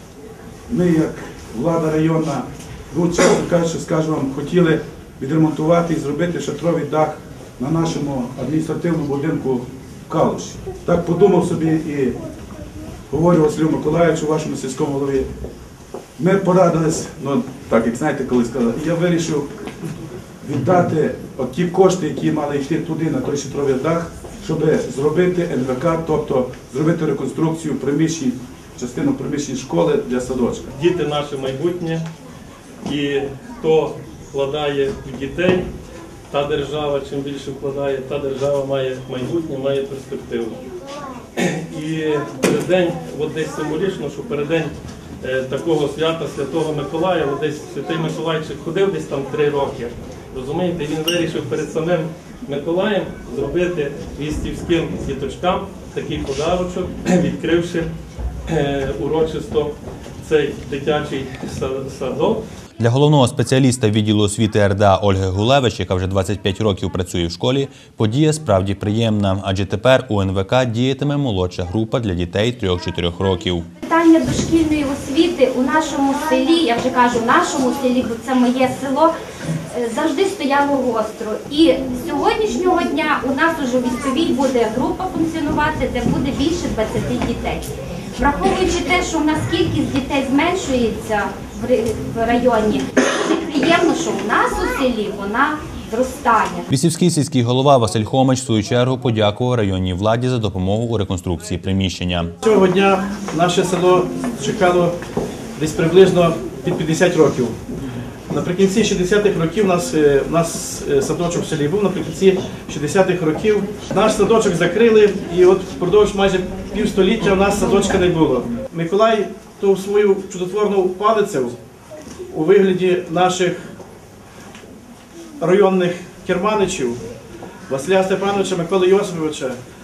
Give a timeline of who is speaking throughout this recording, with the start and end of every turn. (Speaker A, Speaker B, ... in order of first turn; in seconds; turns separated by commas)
Speaker A: 0.7-12.2, Speaker A: 13.1-15.3, Speaker A: 16.2-19.5, Speaker A: 20.4-30.7, Speaker B: 30.7-32.0, Speaker B: 32.8-35.7, Speaker B: 36.3-40.6, Speaker B: 41.4-57.9, Speaker B: 58.5-62.4, Speaker C: 62.8-73.7, Speaker D: 73.8-79.1, Speaker D: 79.7-96.7, Speaker C: 96.7-102.3, Speaker E: 102.4-105.0, Speaker E: 105.5-107.6, Speaker E: 108.3-121.5, Speaker E: 122.3-123.7, Speaker E: 125.4-127.0, Speaker E: 127.7-129.6